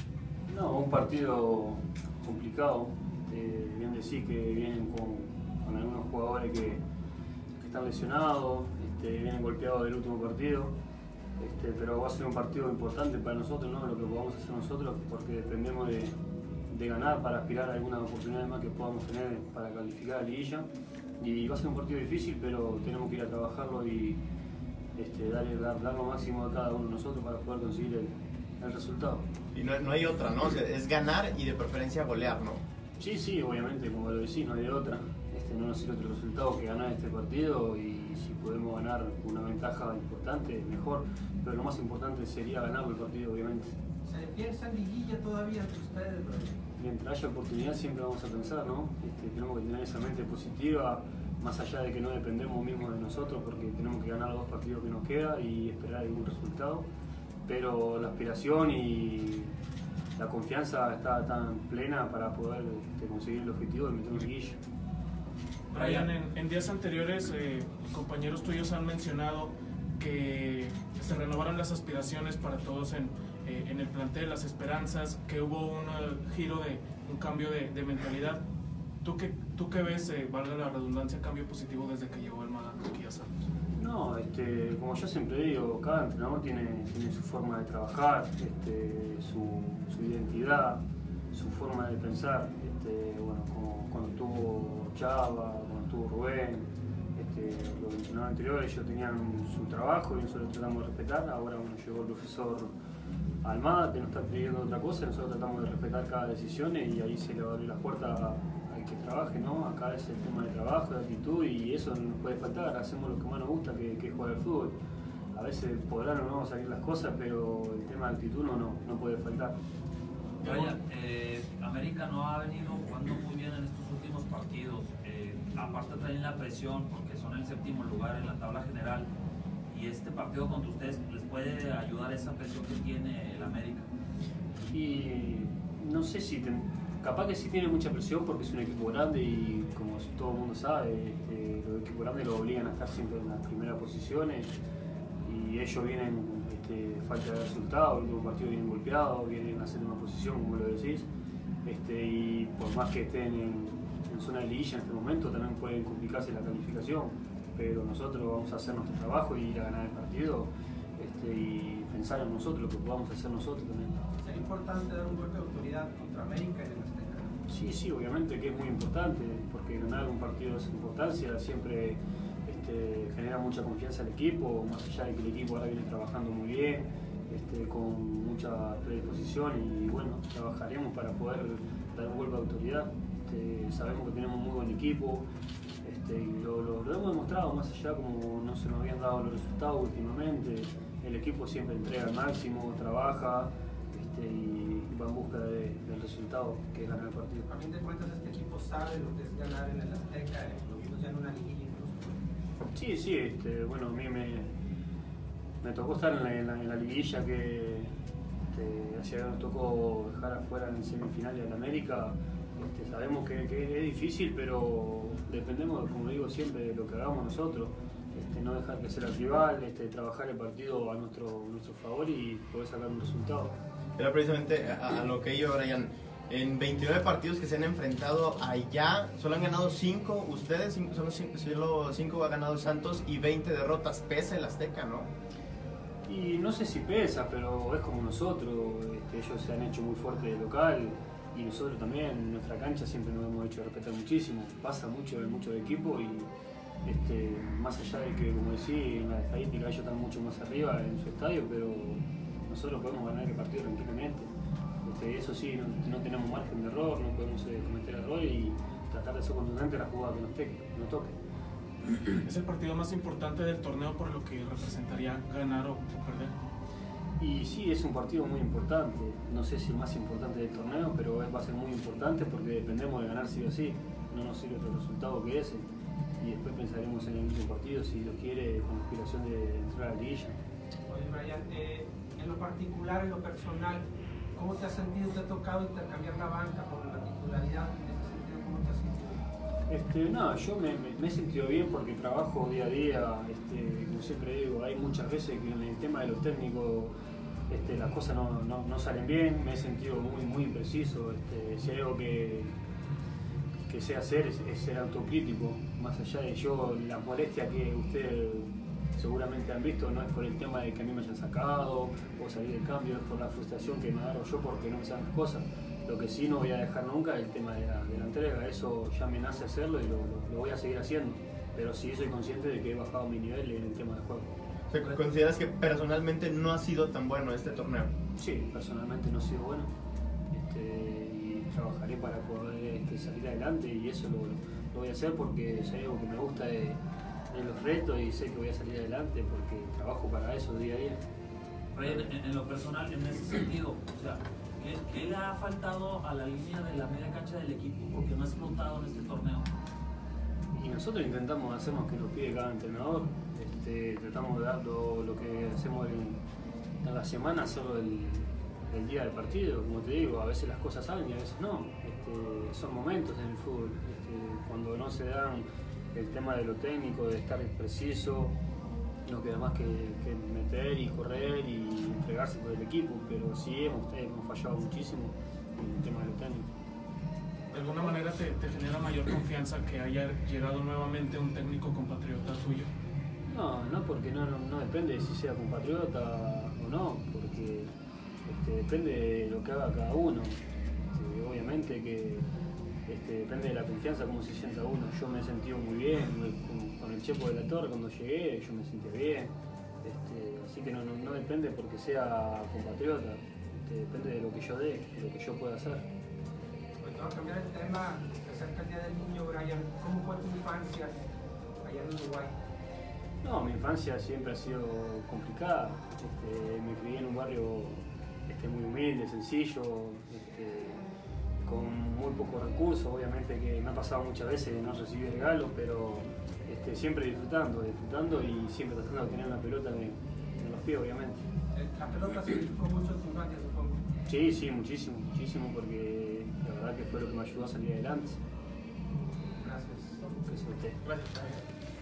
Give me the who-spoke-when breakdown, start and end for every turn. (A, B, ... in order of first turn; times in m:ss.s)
0:00.5-0:06.8 A
0:07.6-0:10.8 A
0:11.4-0:16.2 A
0:16.7-0:20.7 A
0:21.2-0:24.2 A
0:25.0-0:29.3 A
0:29.5-0:32.6 B
0:33.0-0:43.8 A
0:44.0-0:46.6 C
0:46.8-0:56.9 A
0:57.5-0:59.5 A
1:00.2-1:04.6 A
1:05.7-1:18.4 D
1:05.8-1:06.1 E
1:19.0-1:23.3 D
1:23.8-1:42.7 A
1:43.4-1:54.8 A
1:55.3-1:59.6 A
2:00.4-2:09.1 E
2:09.7-2:13.9 E
2:14.7-2:24.5 A
2:25.2-2:31.1 A
2:31.6-2:44.0 A
2:44.2-2:47.3 C
2:47.5-3:05.3 A
3:05.8-3:17.5 A
3:17.5-3:22.2 C
3:22.7-3:24.5 A
3:25.6-3:27.9 A
3:28.5-3:43.6 A
3:44.0-3:55.1 B
3:56.1-4:06.3 A
4:06.8-4:14.3 A
4:14.8-4:21.2 A
4:22.2-4:26.4 D
4:27.2-4:35.7 A
4:36.2-4:40.4 A
4:40.9-4:49.2 C
4:49.7-4:56.9 A
4:57.5-5:02.5 A
5:03.6-5:24.3 A
5:24.7-5:27.9 B
5:28.2-5:29.7 A
5:30.3-5:36.8 A
5:37.3-5:41.0 A
5:41.7-5:49.5 E
5:50.5-5:56.2 A
5:56.8-6:08.4 A
6:09.0-6:16.5 A
6:17.5-6:22.7 D
6:23.3-6:27.7 A
6:28.2-6:30.4 A
6:30.9-6:32.3 A
6:32.9-6:45.9 A
6:46.8-6:51.0 C
6:51.6-6:52.4 C
6:53.2-7:00.8 A
7:01.4-7:11.2 A
7:11.6-7:13.8 C
7:14.1-7:18.2 A
7:19.4-7:20.1 C
7:20.2-7:20.8 A
7:20.9-7:21.4 C